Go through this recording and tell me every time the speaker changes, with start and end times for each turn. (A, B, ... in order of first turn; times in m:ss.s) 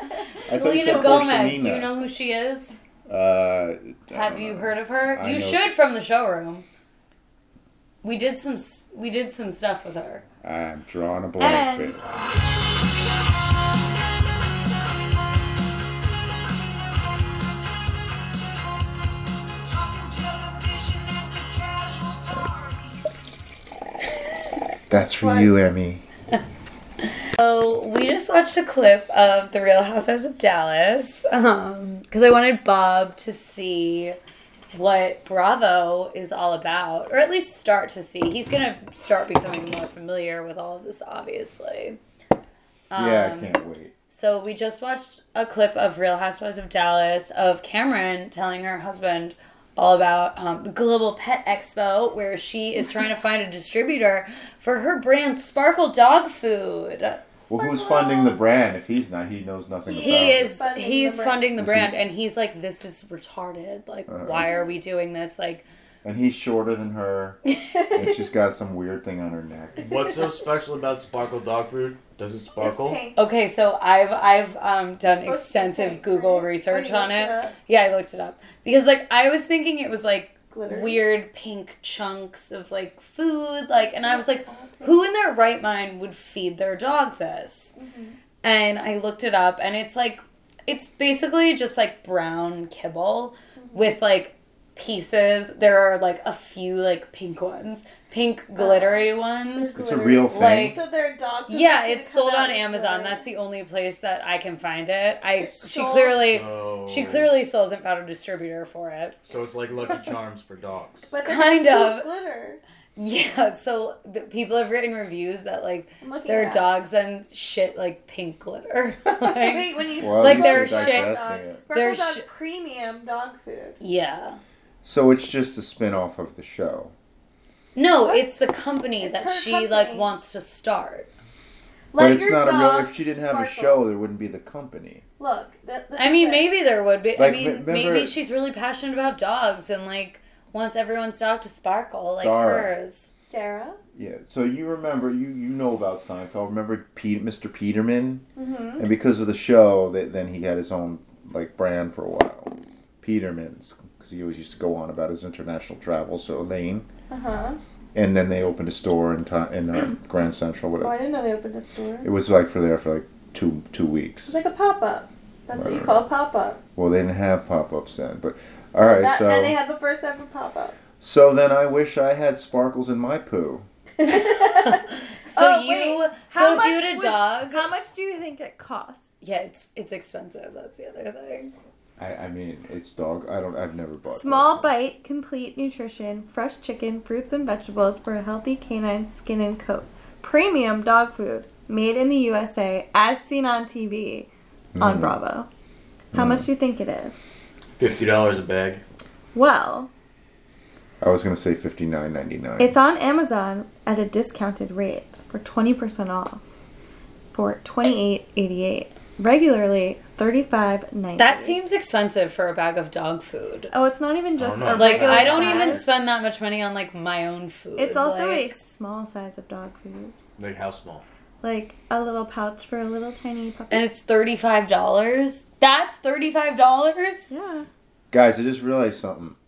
0:00.5-0:01.9 A
0:00.5-0:02.8 B
0:03.1-0:05.7 A
0:04.1-0:06.6 B
0:08.0-0:10.2 B
0:10.4-0:12.0 A
0:11.4-0:12.0 C
0:19.8-0:22.2 D
0:24.9-0:26.0 A
0:25.2-0:25.6 C
0:27.3-0:34.1 B
0:34.7-0:42.0 B
0:42.9-0:43.5 B
0:42.9-0:43.9 A
0:44.1-0:57.2 B
0:57.5-1:00.5 A
0:57.5-0:58.4 C
0:59.9-1:01.5 C
0:59.9-1:05.6 B
1:01.6-1:01.9 A
1:04.1-1:04.5 A
1:06.0-1:07.4 A
1:07.7-1:08.2 C
1:07.9-1:09.9 A
1:09.8-1:13.0 D
1:12.5-1:13.2 C
1:13.2-1:27.7 B
1:15.0-1:17.5 C
1:20.5-1:21.1 C
1:23.8-1:25.0 C
1:27.7-1:28.2 C
1:28.4-1:40.8 B
1:33.6-1:33.9 C
1:38.6-1:43.2 C
1:39.8-1:40.8 A
1:41.5-1:49.3 B
1:45.4-1:46.3 C
1:46.2-1:47.3 D
1:49.2-1:51.1 D
1:51.1-1:52.6 C
1:51.2-1:52.1 B
1:53.0-2:02.2 B
1:56.0-1:56.7 C
1:59.1-2:03.8 C
2:00.0-2:01.6 A
2:03.8-2:04.4 B
2:04.8-2:06.9 A
2:07.7-2:11.1 B
2:09.0-2:10.1 C
2:11.9-2:13.8 C
2:12.0-2:15.0 A
2:15.2-2:16.5 C
2:16.0-2:23.1 B
2:17.1-2:18.1 A
2:22.2-2:22.7 A
2:23.3-2:23.8 C
2:23.9-2:28.2 A
2:28.4-2:28.8 C
2:28.8-2:36.9 A
2:37.1-2:37.6 C
2:37.9-2:41.0 A
2:40.8-2:42.1 C
2:42.0-2:44.3 A
2:44.3-2:46.6 C
2:45.5-2:46.1 A
2:46.8-2:49.6 A
2:49.0-2:50.8 C
2:51.0-2:53.6 A
2:54.0-2:59.1 C
2:54.0-2:57.7 B
2:59.2-3:01.5 B
3:02.0-3:04.7 A
3:04.0-3:14.3 C
3:14.7-3:15.2 A
3:14.8-3:15.5 C
3:16.1-3:16.5 A
3:16.1-3:17.2 C
3:17.8-3:18.8 D
3:19.3-3:19.9 C
3:21.0-3:22.7 A
3:22.6-3:26.4 C
3:27.3-3:31.6 C
3:31.2-3:33.7 B
3:33.7-3:35.9 C
3:34.4-3:35.9 D
3:34.7-3:38.5 B
3:37.8-3:40.1 C
3:40.4-3:41.0 D
3:41.4-3:43.8 C
3:43.7-3:47.3 B
3:47.3-3:47.7 C
3:48.1-3:49.4 A